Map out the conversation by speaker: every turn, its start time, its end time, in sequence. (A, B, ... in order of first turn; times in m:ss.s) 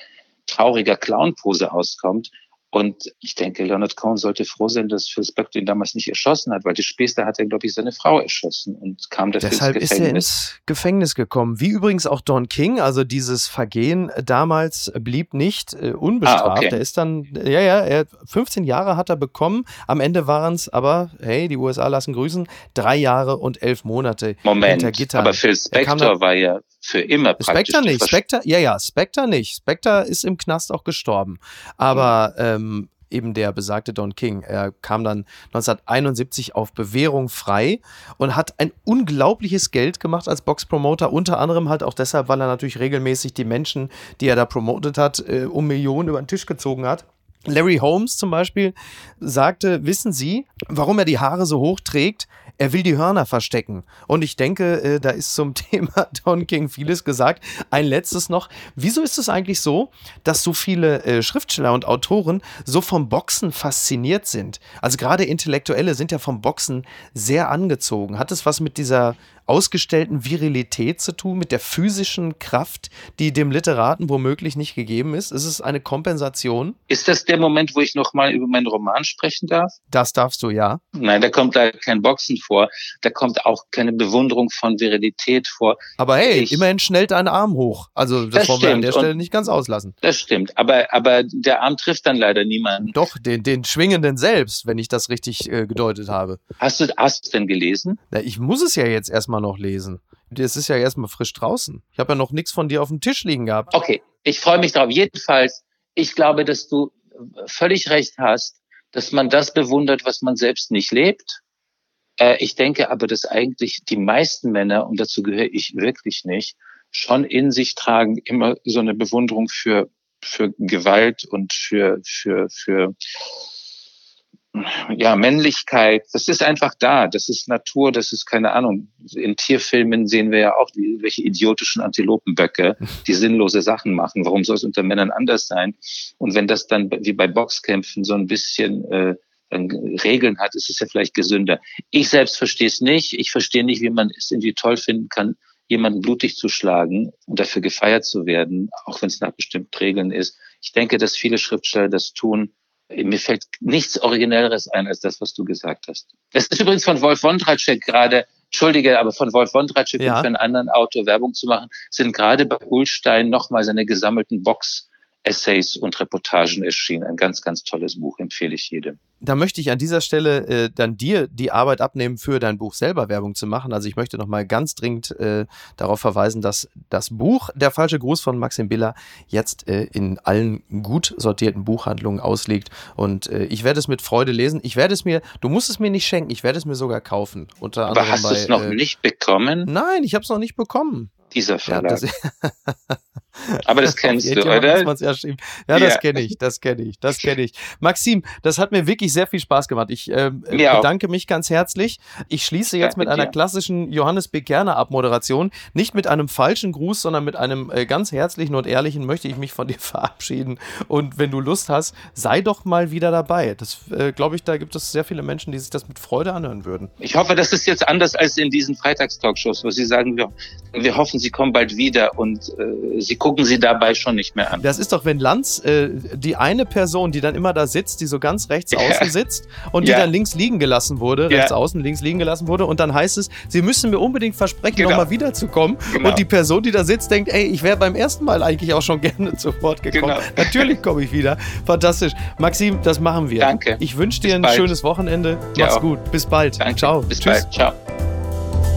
0:00.5-0:10.2 A
0:09.4-0:26.1 B
0:16.3-0:16.8 A
0:24.4-0:28.2 A
0:27.4-1:16.8 B
1:16.9-1:19.8 A
1:19.9-1:20.8 B
1:20.9-1:26.6 A
1:26.0-1:29.9 B
1:28.3-1:29.1 A
1:30.0-1:33.0 A
1:32.9-1:36.4 B
1:36.6-1:38.0 A
1:38.1-1:43.7 B
1:43.7-1:51.4 A
1:52.2-2:03.0 A
2:04.5-2:49.0 A
2:40.0-2:40.3 B
2:49.2-3:08.8 B
3:07.9-3:09.7 A
3:09.7-3:11.2 B
3:11.3-3:12.0 A
3:11.7-3:36.9 B
3:13.6-3:14.9 A
3:15.7-3:16.2 A
3:20.5-3:20.9 A
3:22.7-3:23.3 A
3:37.0-3:44.6 A
3:44.6-4:07.5 B
3:48.7-3:49.1 A
3:49.8-3:50.1 A
3:54.8-3:55.0 A
3:55.9-3:56.2 A
3:59.9-4:00.8 A
4:03.4-4:04.7 A
4:05.6-4:05.8 A
4:06.6-4:07.8 A